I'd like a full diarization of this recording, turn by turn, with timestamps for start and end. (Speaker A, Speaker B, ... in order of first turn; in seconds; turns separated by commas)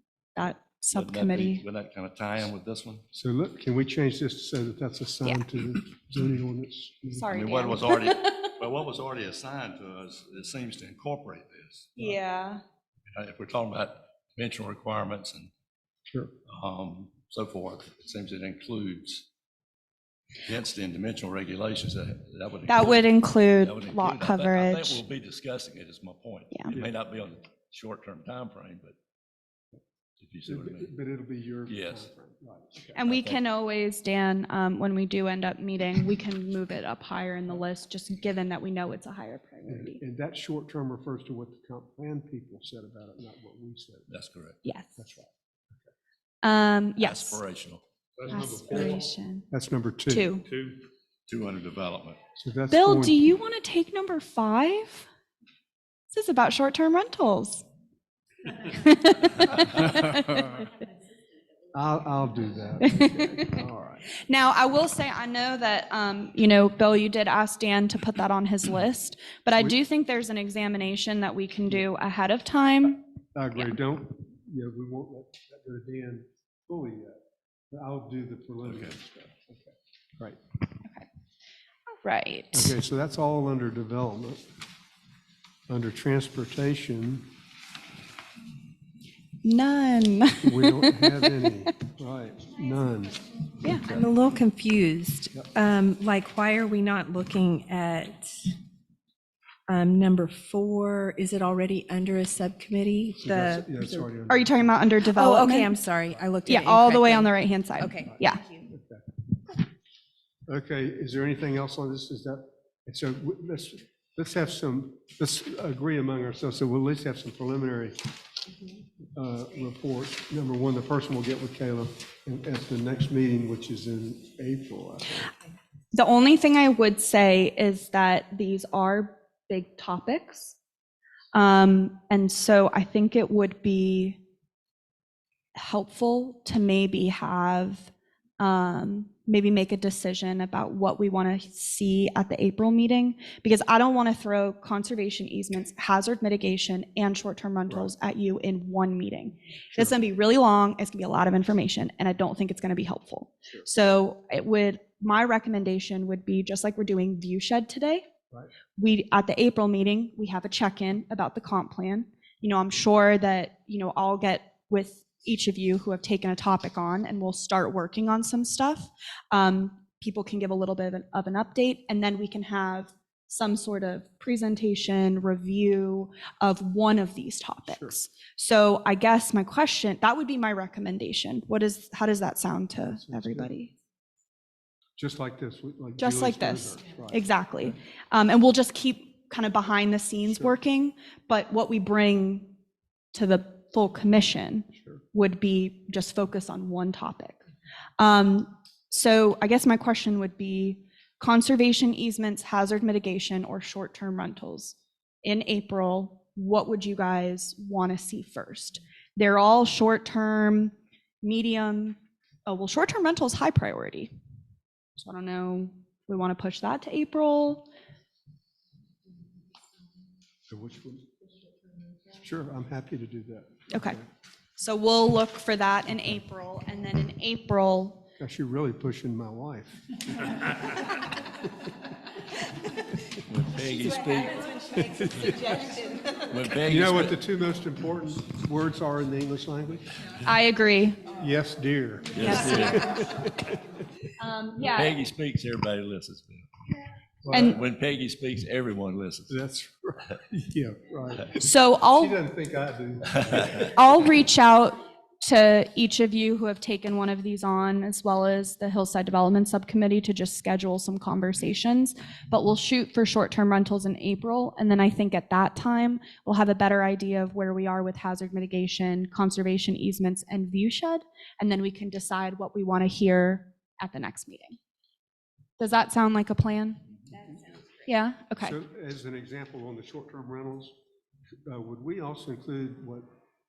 Speaker A: 0.3-1.6, Speaker B: 0.9-3.0, Speaker C: 3.1-7.3, Speaker A: 7.1-8.5, Speaker B: 7.3-11.9, Speaker A: 12.0-12.6, Speaker B: 13.1-15.5, Speaker B: 16.5-19.2, Speaker B: 20.4-28.9, Speaker A: 22.7-25.0, Speaker B: 30.2-30.9, Speaker C: 30.4-33.0, Speaker B: 31.7-32.1, Speaker A: 32.9-40.0, Speaker B: 33.0-33.4, Speaker C: 39.6-44.1, Speaker B: 44.1-44.6, Speaker A: 44.6-45.0, Speaker C: 45.0-45.9, Speaker A: 46.4-47.4, Speaker B: 47.0-47.8, Speaker A: 48.3-49.5, Speaker C: 49.5-50.3, Speaker A: 50.1-50.5, Speaker B: 51.3-52.2, Speaker C: 52.4-53.2, Speaker A: 52.7-55.1, Speaker A: 56.1-57.6, Speaker A: 58.6-60.6, Speaker C: 61.7-64.0, Speaker A: 62.8-63.6, Speaker A: 64.2-73.0, Speaker C: 73.3-77.2, Speaker C: 77.7-80.4, Speaker B: 78.7-78.9, Speaker A: 82.0-82.7, Speaker C: 82.5-84.4, Speaker C: 85.7-87.2, Speaker A: 89.4-91.7, Speaker C: 90.4-94.1, Speaker A: 93.6-94.0, Speaker D: 93.8-98.4, Speaker D: 99.7-104.1, Speaker C: 103.2-104.5, Speaker A: 104.3-105.7, Speaker D: 105.0-108.7, Speaker A: 106.5-108.4, Speaker C: 108.7-109.2, Speaker C: 110.5-118.0, Speaker C: 119.1-125.3, Speaker A: 125.9-130.6, Speaker A: 131.3-134.2, Speaker A: 135.5-158.0, Speaker A: 158.8-183.7, Speaker C: 177.7-177.9, Speaker C: 182.9-183.5, Speaker C: 185.0-187.8, Speaker A: 186.0-192.5, Speaker A: 193.1-197.4, Speaker A: 198.0-214.1, Speaker A: 215.0-217.7, Speaker C: 220.5-221.1, Speaker C: 222.1-224.0, Speaker A: 223.7-224.0, Speaker A: 224.6-228.0, Speaker C: 228.2-230.7, Speaker B: 233.2-235.4, Speaker C: 234.8-236.0, Speaker B: 236.2-237.2, Speaker C: 236.5-239.9, Speaker A: 240.2-241.1, Speaker C: 241.1-243.6, Speaker B: 242.1-243.0, Speaker A: 242.2-242.6, Speaker A: 244.2-245.0, Speaker B: 244.6-246.5, Speaker C: 247.2-247.6, Speaker A: 247.3-247.6, Speaker B: 247.3-249.3, Speaker C: 249.3-253.7, Speaker A: 251.3-252.2, Speaker A: 253.5-274.6, Speaker A: 275.6-276.8, Speaker A: 277.8-278.6, Speaker C: 278.4-280.7, Speaker C: 281.4-283.1